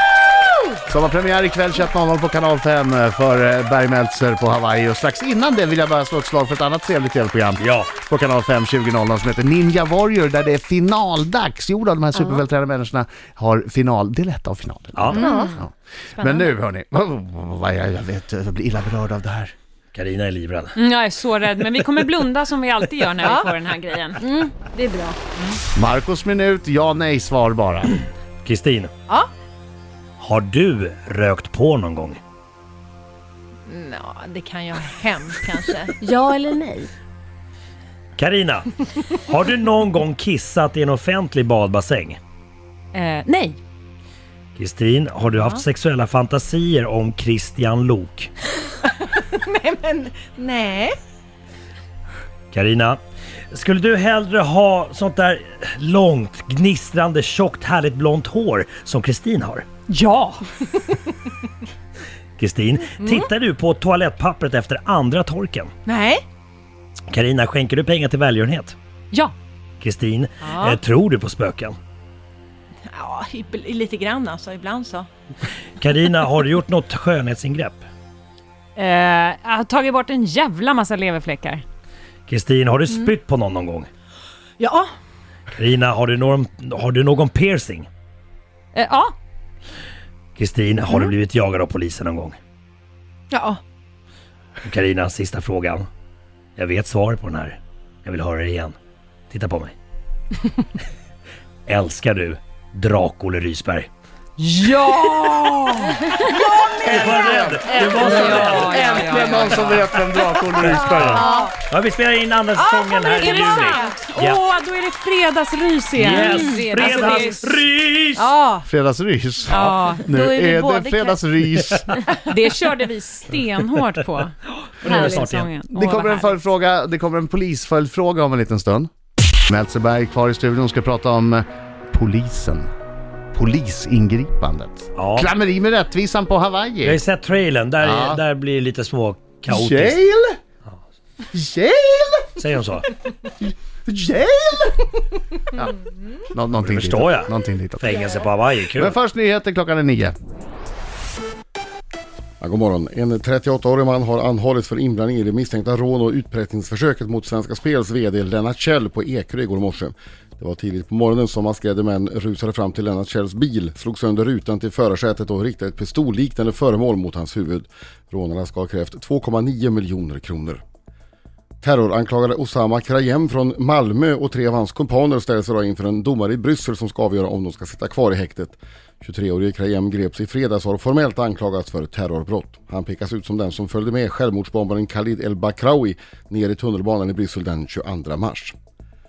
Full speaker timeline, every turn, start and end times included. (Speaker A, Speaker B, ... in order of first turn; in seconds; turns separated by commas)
Speaker A: 0.9-19.5, Speaker B: 7.6-8.0, Speaker C: 12.1-12.4, Speaker B: 14.9-15.2, Speaker C: 15.1-15.6, Speaker D: 16.1-16.6, Speaker B: 19.9-20.8, Speaker E: 20.8-24.2, Speaker D: 23.2-23.5, Speaker D: 24.2-24.5, Speaker C: 24.6-25.2, Speaker A: 25.8-28.0, Speaker B: 28.4-28.9, Speaker B: 30.2-32.2, Speaker D: 33.7-35.9, Speaker C: 36.0-36.9, Speaker B: 38.2-38.7, Speaker B: 39.2-42.2, Speaker E: 42.9-43.6, Speaker B: 44.5-48.3, Speaker D: 48.9-50.9, Speaker B: 52.5-53.0, Speaker B: 53.5-59.6, Speaker E: 59.9-60.7, Speaker B: 62.4-65.7, Speaker D: 63.0-63.3, Speaker D: 65.9-66.2, Speaker B: 67.1-68.8, Speaker B: 69.8-71.8, Speaker D: 70.4-70.8, Speaker D: 72.9-75.1, Speaker B: 75.8-77.9, Speaker E: 78.8-81.6, Speaker B: 82.3-83.9, Speaker D: 84.6-84.9, Speaker B: 85.5-87.9, Speaker E: 88.7-89.1, Speaker B: 90.4-92.4, Speaker D: 93.3-93.6, Speaker B: 94.6-95.9, Speaker B: 96.6-98.8, Speaker B: 99.3-99.8, Speaker B: 101.7-103.9, Speaker E: 104.4-106.2, Speaker C: 105.9-106.4, Speaker D: 106.2-107.5, Speaker A: 106.8-111.2, Speaker B: 106.8-109.8, Speaker E: 107.7-109.9, Speaker B: 110.5-114.4, Speaker D: 110.7-111.5, Speaker C: 111.0-111.5, Speaker D: 112.5-114.1, Speaker E: 113.1-117.6, Speaker B: 116.0-118.3, Speaker D: 118.1-118.6, Speaker A: 118.6-122.0, Speaker E: 119.5-120.0, Speaker D: 120.1-121.2, Speaker E: 122.2-126.5, Speaker B: 124.8-125.5, Speaker C: 124.8-125.3, Speaker A: 125.7-128.9, Speaker A: 129.5-132.7, Speaker A: 133.3-137.0, Speaker B: 135.0-135.3, Speaker B: 136.8-140.0, Speaker A: 137.8-138.2, Speaker A: 139.5-140.4, Speaker A: 141.3-142.3, Speaker B: 142.4-142.9, Speaker A: 143.4-145.8, Speaker A: 146.3-148.1, Speaker B: 146.6-149.0, Speaker A: 148.8-150.1, Speaker F: 152.4-170.6, Speaker F: 171.6-188.5